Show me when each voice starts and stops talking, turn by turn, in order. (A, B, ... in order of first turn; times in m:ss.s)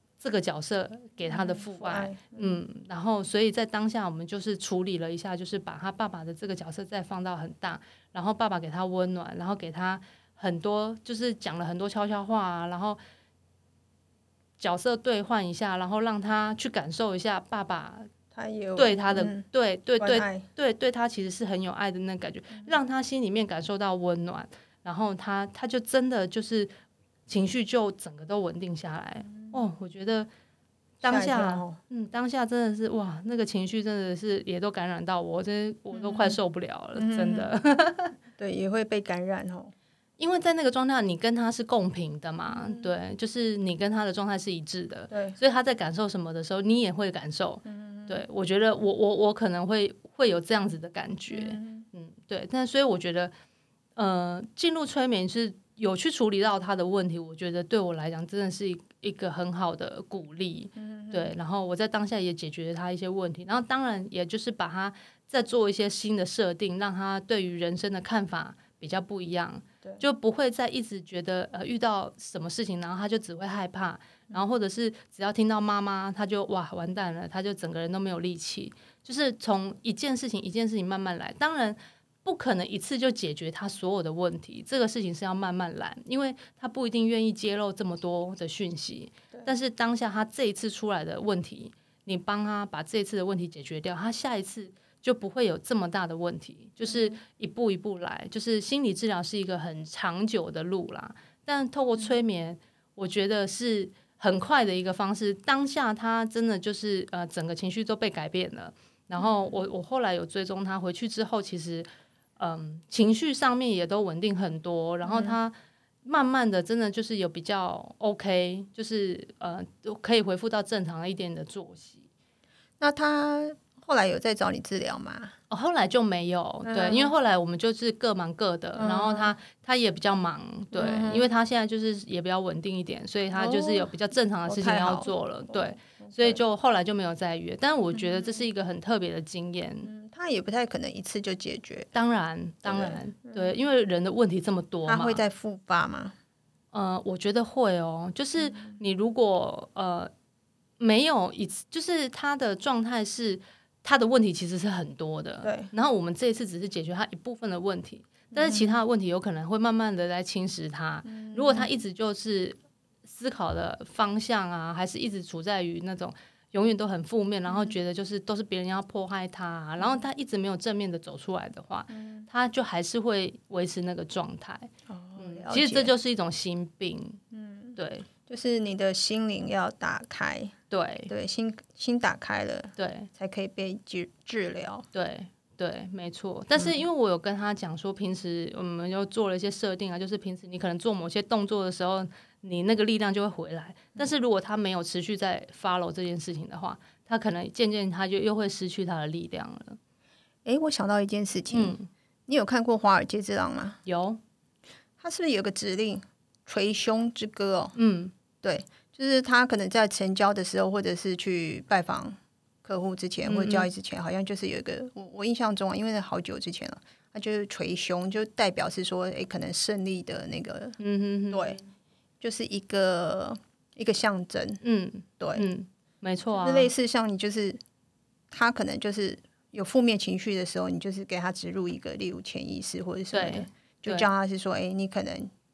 0:00.2-0:13.0 A
0:01.3-0:02.6 B
0:14.6-0:18.1 A
0:18.3-0:19.4 B
0:18.8-0:26.7 A
0:20.0-0:20.4 B
0:27.3-0:30.3 A
0:31.0-0:38.1 A
0:31.0-0:31.8 B
0:35.9-0:36.4 B
0:37.0-0:37.5 B
0:38.4-0:39.7 B
0:40.2-0:53.3 A
0:42.5-0:42.9 B
0:45.1-0:45.4 B
0:47.6-0:48.2 B
0:51.3-0:51.8 B
0:54.0-1:55.5 A
1:00.8-1:01.3 B
1:36.8-1:37.2 B
1:49.2-1:49.6 B
1:55.0-1:55.4 B
1:56.0-2:02.0 A
2:02.8-2:05.3 B
2:05.5-2:19.9 A
2:06.6-2:07.1 B
2:08.8-2:09.3 B
2:10.7-2:11.3 B
2:13.3-2:13.9 B
2:14.4-2:16.4 B
2:17.9-2:18.5 B
2:19.8-2:21.9 B
2:21.9-2:25.2 A
2:22.6-2:23.6 B
2:24.8-2:26.1 B
2:26.7-2:30.1 A
2:28.4-2:28.7 B
2:30.8-2:57.2 A
2:35.4-2:35.7 B
2:38.3-2:38.8 B
2:41.0-2:41.7 B
2:47.5-2:47.7 B
2:49.8-2:50.0 B
2:51.9-2:52.3 B
2:54.9-2:55.9 B
2:57.3-3:00.5 B
2:57.8-2:58.1 A
3:00.7-3:01.1 A
3:01.1-3:04.8 B
3:02.8-3:03.1 A
3:04.9-3:19.8 A
3:20.4-3:21.8 B
3:21.5-3:21.9 A
3:22.3-3:23.8 B
3:23.8-3:24.2 A
3:25.0-3:27.7 B
3:27.7-3:28.1 A
3:28.4-3:40.8 B
3:33.2-3:33.7 A
3:40.8-3:41.6 A
3:41.3-3:41.6 B
3:42.2-3:44.6 B
3:44.6-3:46.7 A
3:45.2-3:45.4 B
3:46.3-3:47.6 B
3:48.3-3:55.3 B
3:53.1-3:54.1 A